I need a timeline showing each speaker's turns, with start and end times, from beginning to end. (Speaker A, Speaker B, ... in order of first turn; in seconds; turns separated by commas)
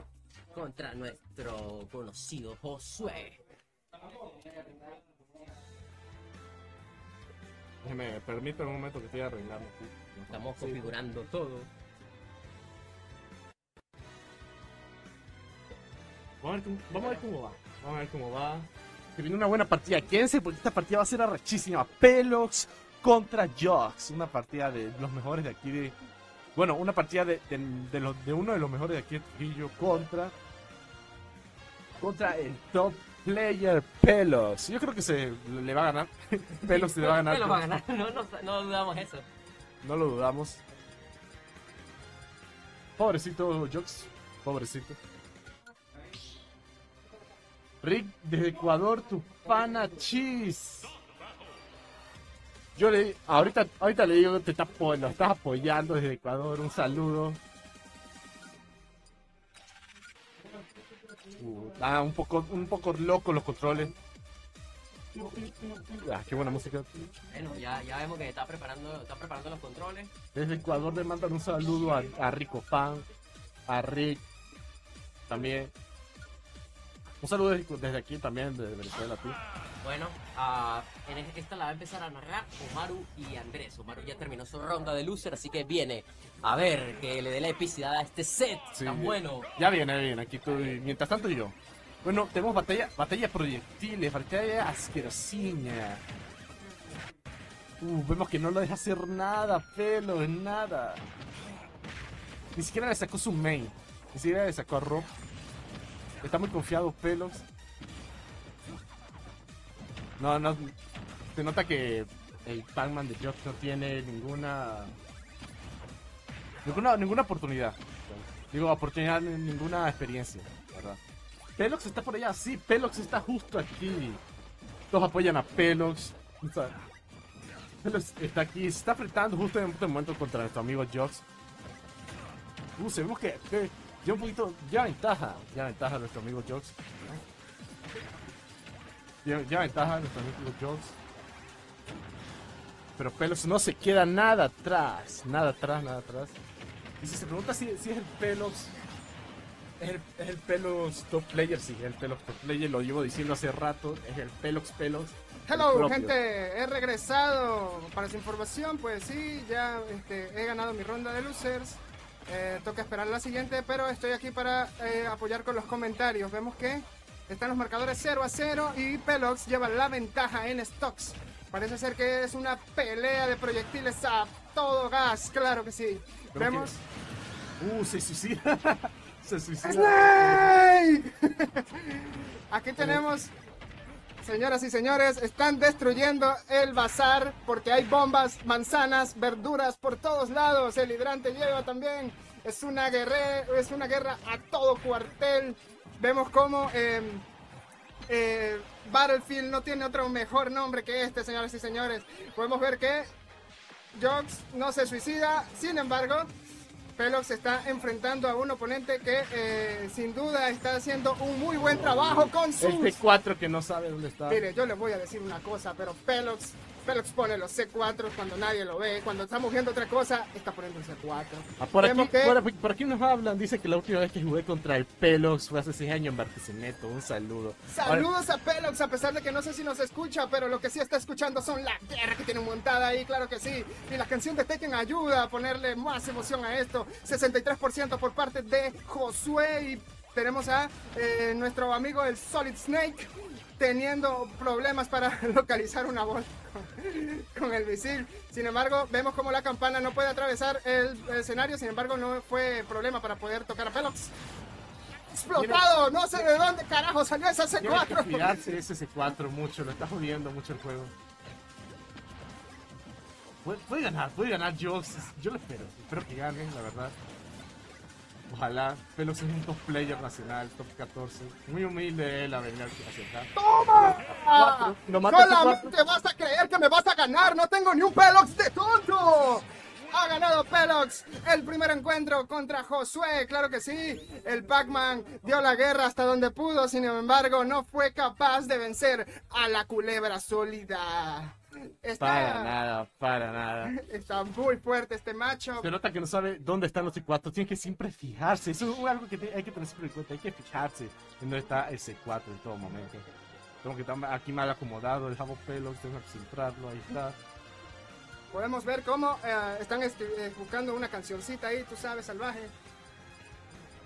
Speaker A: 0.5-3.4, Speaker B: 7.8-10.9, Speaker A: 10.3-11.7, Speaker B: 16.4-25.9, Speaker B: 26.5-30.3, Speaker B: 32.0-37.6, Speaker A: 36.6-39.2, Speaker B: 39.8-40.6, Speaker B: 43.0-45.0, Speaker B: 47.8-50.9, Speaker B: 52.8-57.4, Speaker B: 61.4-63.9, Speaker B: 65.1-67.1, Speaker A: 67.3-70.1, Speaker B: 70.3-73.0, Speaker B: 73.7-74.2, Speaker B: 75.3-75.7, Speaker B: 77.2-79.4, Speaker A: 79.8-89.5, Speaker B: 88.7-96.0, Speaker B: 97.8-101.0, Speaker B: 102.5-105.1, Speaker B: 106.2-107.4, Speaker B: 110.2-110.7, Speaker B: 111.3-114.9, Speaker B: 116.6-121.0, Speaker B: 121.6-124.2, Speaker B: 124.9-126.8, Speaker B: 127.8-131.2, Speaker B: 132.8-137.2, Speaker B: 139.2-141.0, Speaker B: 143.0-146.3, Speaker B: 147.0-148.7, Speaker B: 149.8-156.1, Speaker C: 155.5-176.8, Speaker B: 176.3-176.7, Speaker B: 177.6-180.5, Speaker C: 179.6-183.3, Speaker B: 182.8-183.0, Speaker C: 184.2-197.2, Speaker C: 198.1-203.1, Speaker C: 203.9-206.3, Speaker C: 207.0-213.0, Speaker B: 211.8-214.4, Speaker C: 214.3-222.4, Speaker B: 221.6-228.1, Speaker C: 227.7-254.1, Speaker C: 255.1-258.5, Speaker B: 255.3-255.6, Speaker B: 257.6-260.9, Speaker B: 263.4-266.9, Speaker B: 268.3-273.3, Speaker C: 273.3-292.6, Speaker B: 274.1-275.7, Speaker B: 292.0-293.7, Speaker C: 293.6-295.7, Speaker B: 295.6-303.0, Speaker B: 303.6-307.2, Speaker C: 308.3-312.5